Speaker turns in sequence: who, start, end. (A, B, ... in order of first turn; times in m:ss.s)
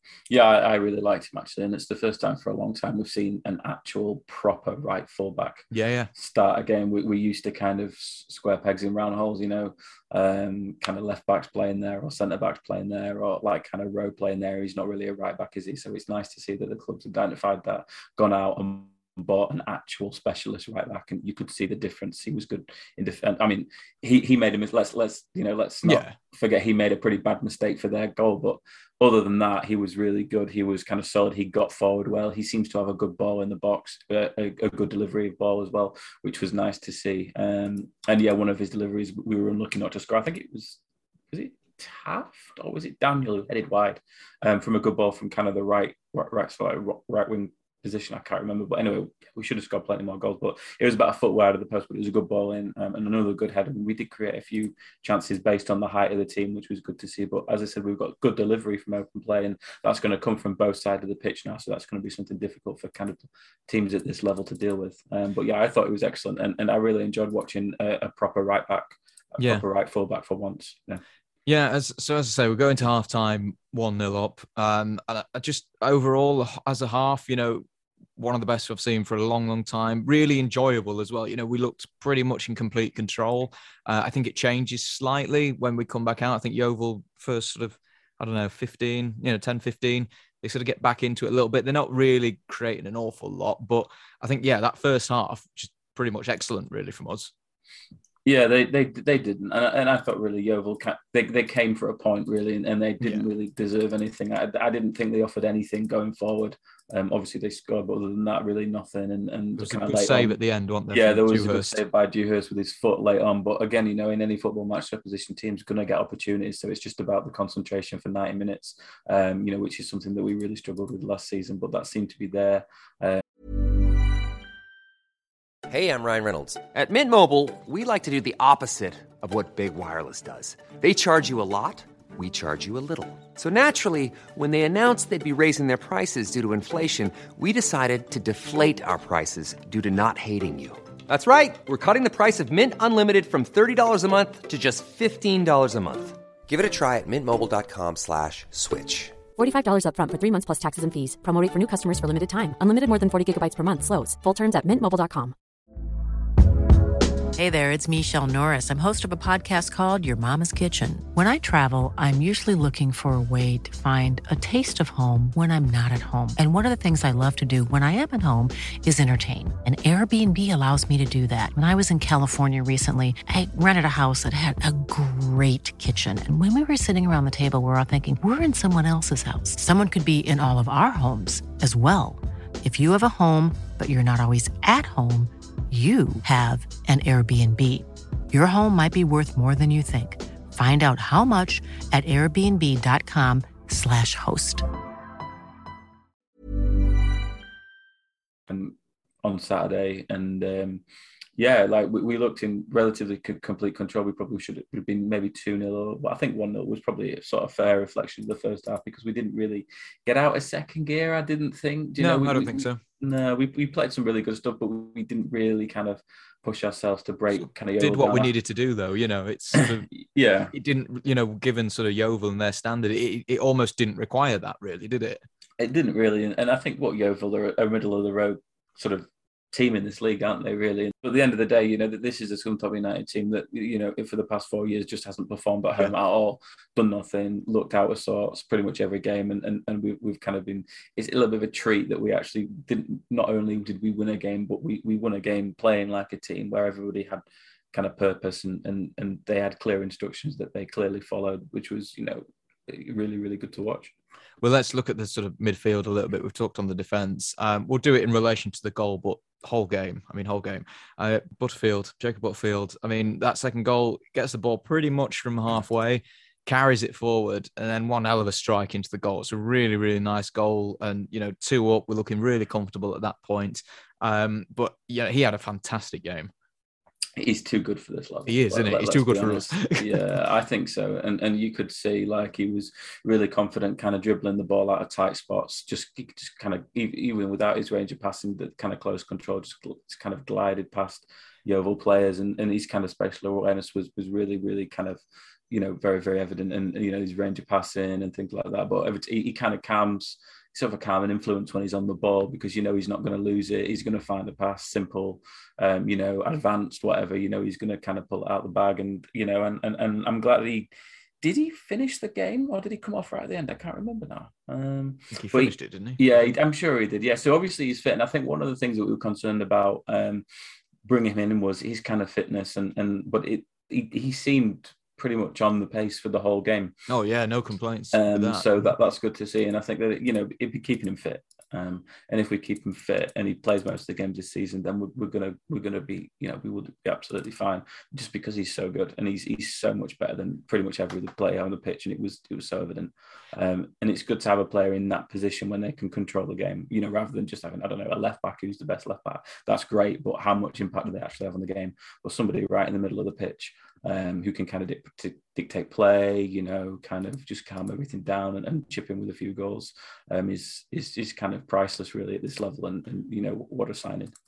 0:00.3-0:40.8 A
0:05.7-0:06.1 B
0:25.8-0:26.2 B
0:41.3-1:11.0 A
1:11.5-1:17.6 B
1:18.2-1:37.3 B
1:38.2-1:50.4 A
1:49.6-1:51.8 B
1:50.9-2:03.2 A
2:05.7-2:29.3 C
2:29.4-2:35.3 D
2:37.4-3:14.6 E
3:18.5-3:20.8 A
3:21.4-3:38.3 A
3:32.0-3:32.8 B
3:37.4-3:39.9 B
3:39.6-3:40.5 A
3:40.5-3:45.2 B
3:45.6-4:13.9 A
4:14.4-4:36.3 B
4:37.2-5:10.7 A
4:38.3-4:40.2 B
5:11.2-5:20.2 A
5:15.1-5:16.0 B
5:20.9-5:26.8 A
5:26.9-5:28.7 B
5:27.9-6:04.1 A